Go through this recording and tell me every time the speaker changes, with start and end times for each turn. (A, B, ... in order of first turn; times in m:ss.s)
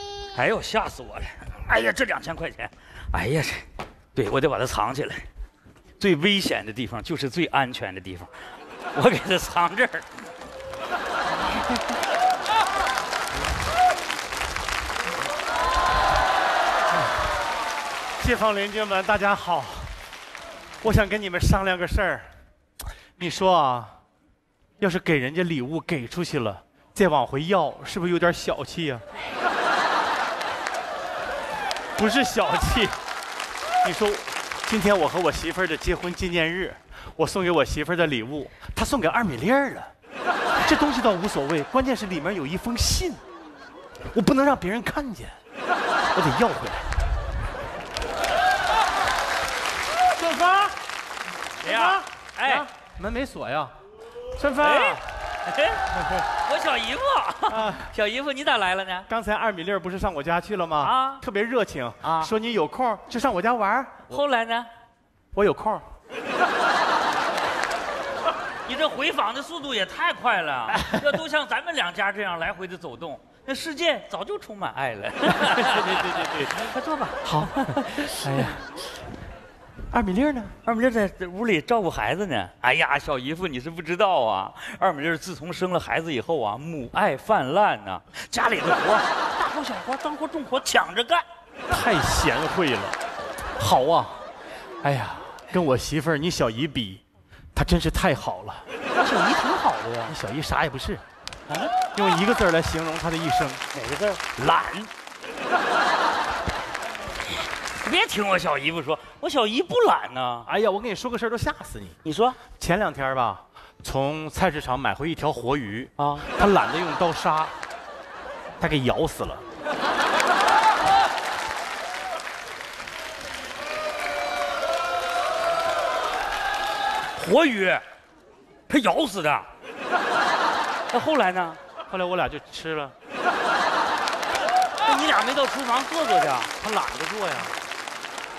0:00.3-0:05.2 A
0:06.0-0:08.3 A
0:08.9-0:10.1 A
0:18.2-0:20.0 B
0:20.8-0:22.3 B
0:23.2-0:24.0 B
0:24.8-0:29.0 B
0:32.0-0:32.9 B
0:33.8-0:39.9 B
0:40.6-0:43.2 B
0:44.1-0:45.4 B
0:46.1-0:46.9 B
0:50.1-0:50.8 B
0:51.6-0:52.7 A
0:51.6-0:53.7 B
0:54.3-0:55.0 B
0:54.6-0:59.1 A
0:55.9-0:56.2 B
0:57.5-0:57.9 B
0:59.1-1:04.2 B
1:00.8-1:01.2 A
1:02.0-1:02.3 A
1:04.1-1:04.7 A
1:05.3-1:05.8 B
1:08.6-1:18.6 A
1:10.7-1:11.1 B
1:15.3-1:16.7 B
1:17.2-1:18.6 B
1:19.9-1:20.5 B
1:20.6-1:31.2 A
1:31.7-1:33.0 B
1:33.6-1:34.2 B
1:34.8-1:37.0 B
1:37.5-1:38.6 B
1:38.9-1:40.2 A
1:40.1-1:41.0 B
1:41.9-1:43.6 B
1:43.7-1:44.9 A
1:47.7-1:50.5 A
1:50.4-1:52.0 B
1:52.0-1:52.4 A
1:52.5-1:57.6 B
1:56.0-1:56.3 A
1:58.6-1:59.4 B
2:07.2-2:07.8 A
2:08.7-2:09.5 A
2:10.9-2:11.6 A
2:11.9-2:12.9 B
2:14.8-2:16.5 A
2:16.6-2:17.6 B